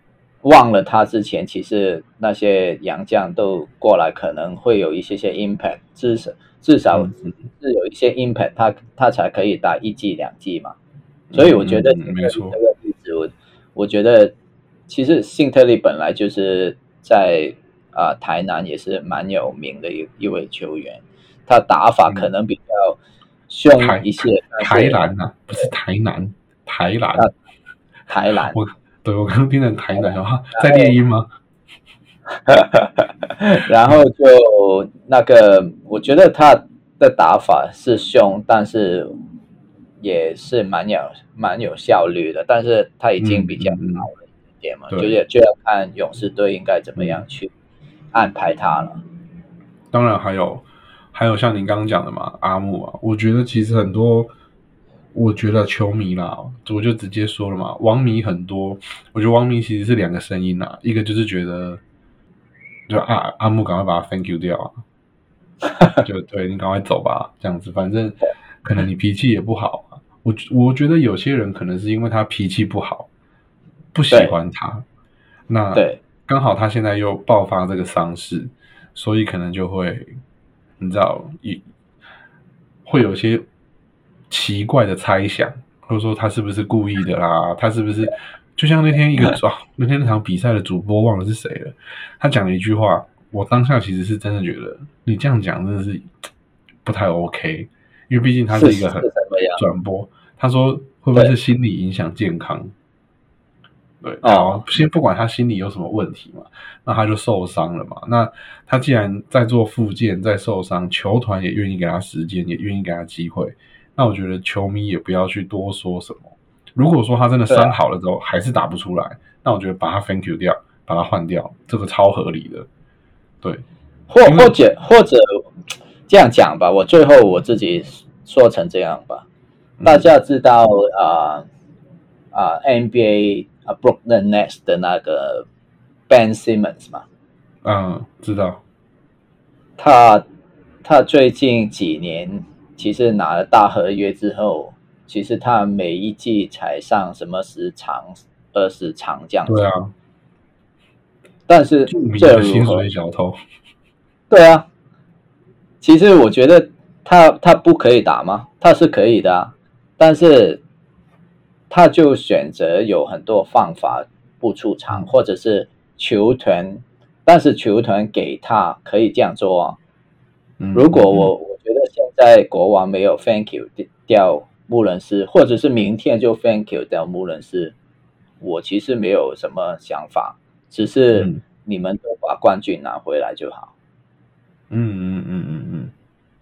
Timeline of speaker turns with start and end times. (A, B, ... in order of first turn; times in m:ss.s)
0:00.4-0:10.8 A
0:06.9-0:07.5 B
0:11.3-0:12.6 B
0:11.3-0:14.3 A
0:14.9-0:23.0 A
0:23.5-0:25.0 A
0:23.8-0:27.3 B
0:28.1-0:28.6 A
0:28.5-0:31.3 B
0:30.6-0:31.0 A
0:32.5-0:39.1 A
0:40.0-0:47.5 A
0:43.2-0:44.1 B
0:44.9-0:45.2 B
0:48.1-0:49.0 A
0:49.9-0:54.3 B
0:55.1-1:01.8 B
1:02.9-1:04.8 B
1:05.6-1:06.0 A
1:06.0-1:13.1 B
1:13.9-1:14.8 B
1:15.5-1:20.2 B
1:15.8-1:16.0 A
1:20.8-1:21.6 B
1:22.8-1:23.5 B
1:24.3-1:36.1 B
1:36.8-1:42.7 B
1:38.5-1:39.6 A
1:44.0-2:02.7 B
1:44.2-1:44.6 A
1:57.5-1:57.7 A
2:04.1-2:05.4 A
2:04.2-2:04.6 B
2:06.1-2:09.2 A
2:09.8-2:10.1 B
2:09.8-2:11.5 A
2:12.3-2:15.5 A
2:16.1-2:17.0 A
2:17.6-2:18.6 B
2:19.8-2:20.2 A
2:20.8-2:29.6 A
2:29.5-2:29.9 B
2:31.5-2:32.9 A
2:31.9-2:33.4 B
2:34.3-2:34.7 A
2:35.8-2:40.6 A
2:41.7-2:49.8 A
2:50.6-2:51.3 B
2:50.7-2:57.8 A
2:58.4-3:03.7 A
3:01.2-3:01.4 B
3:04.7-3:05.9 B